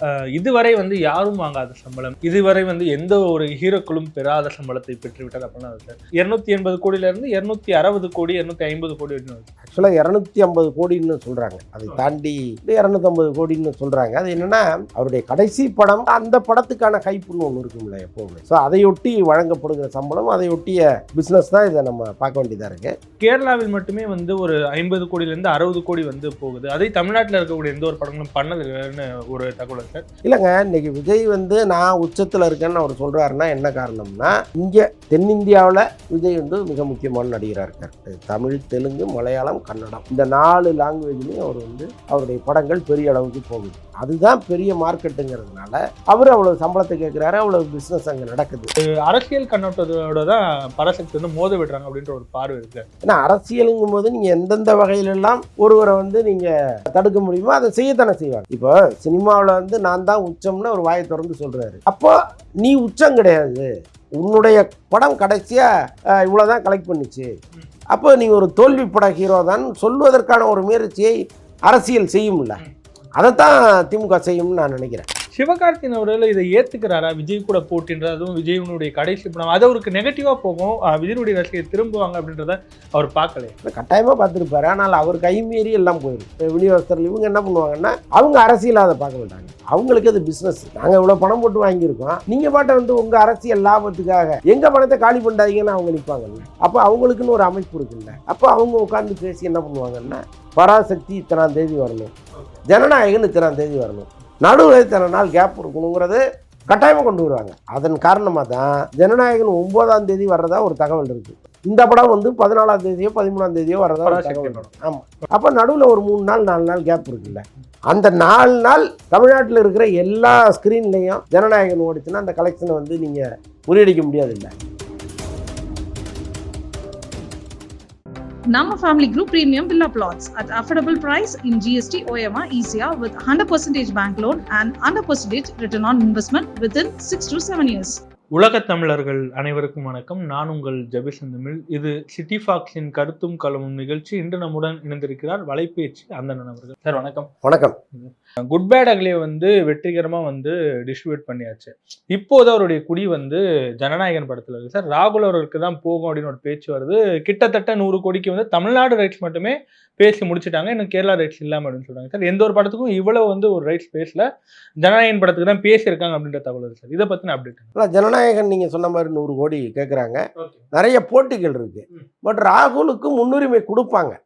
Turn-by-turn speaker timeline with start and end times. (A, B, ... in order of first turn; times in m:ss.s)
0:00.4-0:09.5 A
0:09.6-0:22.9 B
0:23.2-0:30.0 A
0:30.2-0:48.7 B
0:49.1-0:52.8 A
0:53.0-1:05.7 B
1:06.2-1:07.3 B
1:07.9-1:11.2 B
1:11.7-1:12.6 B
1:13.2-1:15.1 B
1:15.4-1:23.6 A
1:23.6-1:42.1 B
1:42.7-2:04.5 B
1:54.0-1:54.7 A
2:08.5-2:18.0 C
2:18.3-2:27.3 A
2:27.4-2:27.8 B
2:28.0-2:44.2 A
2:44.8-2:47.7 A
2:47.8-2:50.2 B
2:50.4-2:50.6 A
2:50.7-2:54.2 B